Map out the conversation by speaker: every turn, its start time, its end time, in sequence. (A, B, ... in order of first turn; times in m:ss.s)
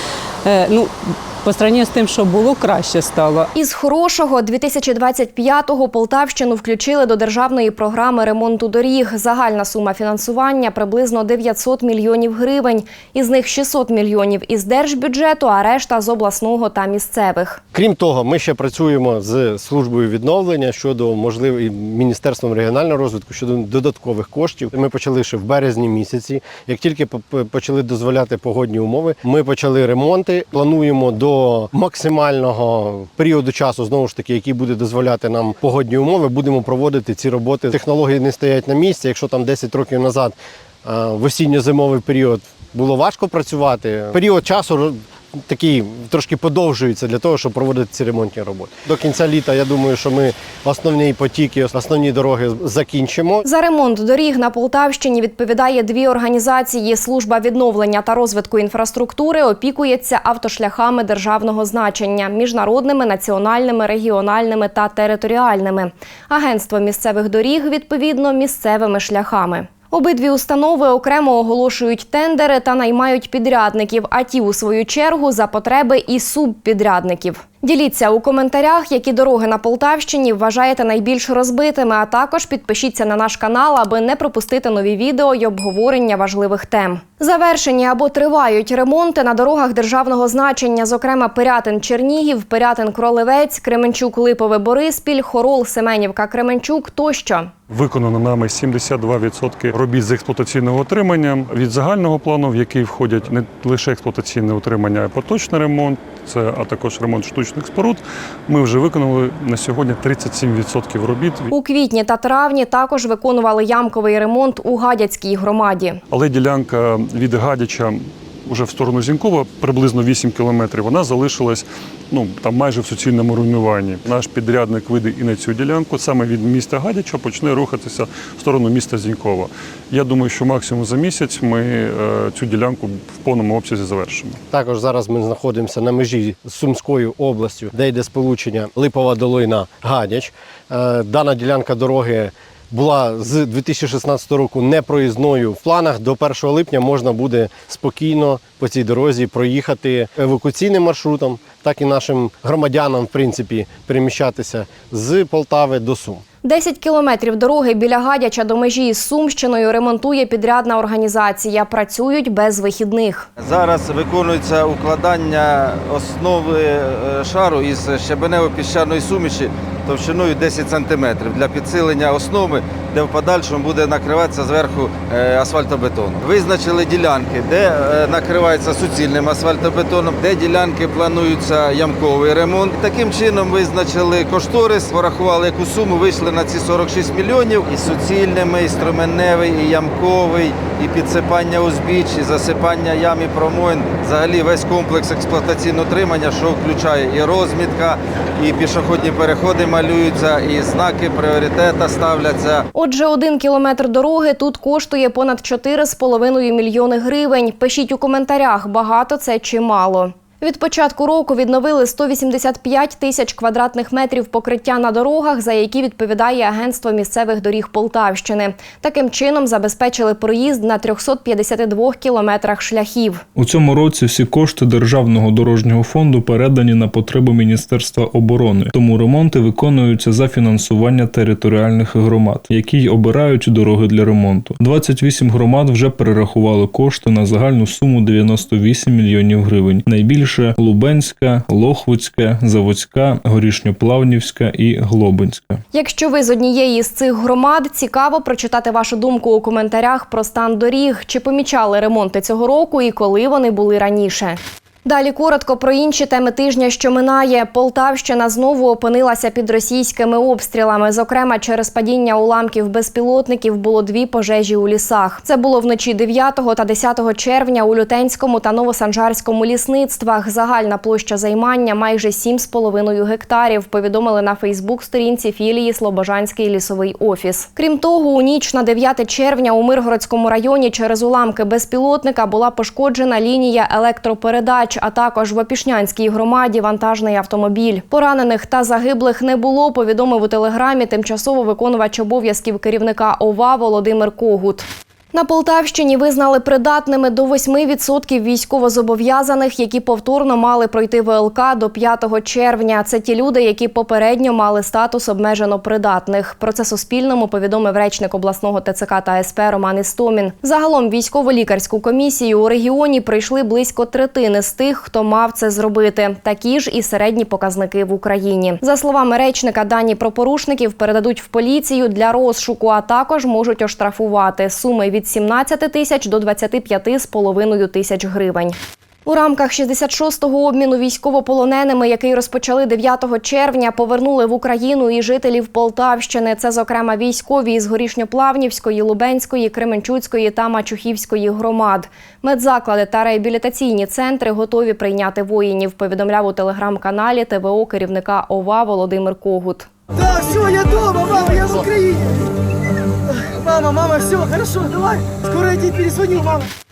0:00.4-0:03.5 A
0:03.6-0:17.6 B
0:17.7-0:53.5 C
0:53.4-1:37.5 B
1:37.7-1:51.5 D
1:51.5-1:56.0 B
1:56.1-2:14.4 D
2:14.5-2:36.2 C
2:36.4-2:43.3 B
2:43.4-3:22.6 E
3:22.7-3:43.2 B
3:43.4-4:05.6 F
4:05.7-5:49.7 B
5:50.0-5:52.2 G
5:53.3-5:56.5 G